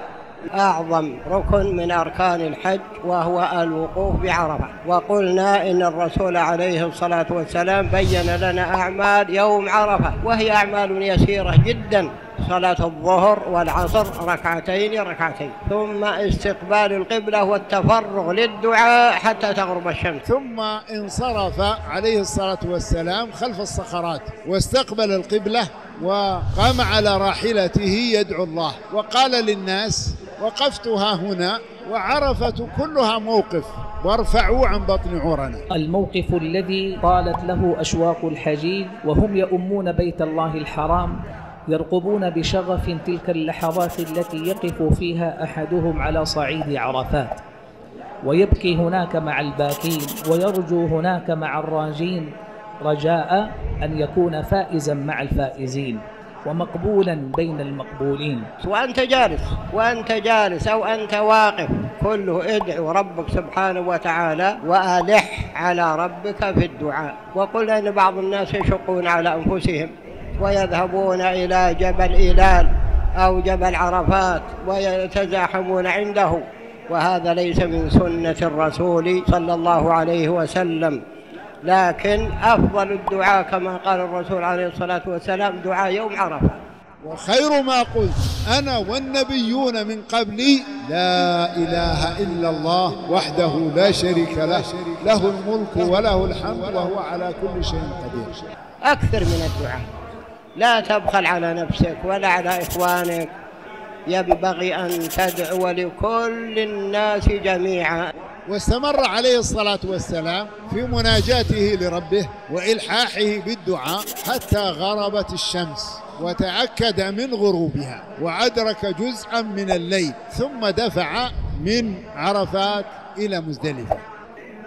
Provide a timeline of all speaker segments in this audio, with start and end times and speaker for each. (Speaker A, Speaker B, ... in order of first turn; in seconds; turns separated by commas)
Speaker A: 0.6-20.2, Speaker B: 20.2-35.6, Speaker C: 35.7-47.4, Speaker C: 48.2-58.5, Speaker A: 58.6-81.0, Speaker A: 81.6-86.6, Speaker B: 87.0-98.3, Speaker A: 98.8-99.9, Speaker A: 100.6-103.3, Speaker A: 104.1-108.0, Speaker B: 108.5-124.0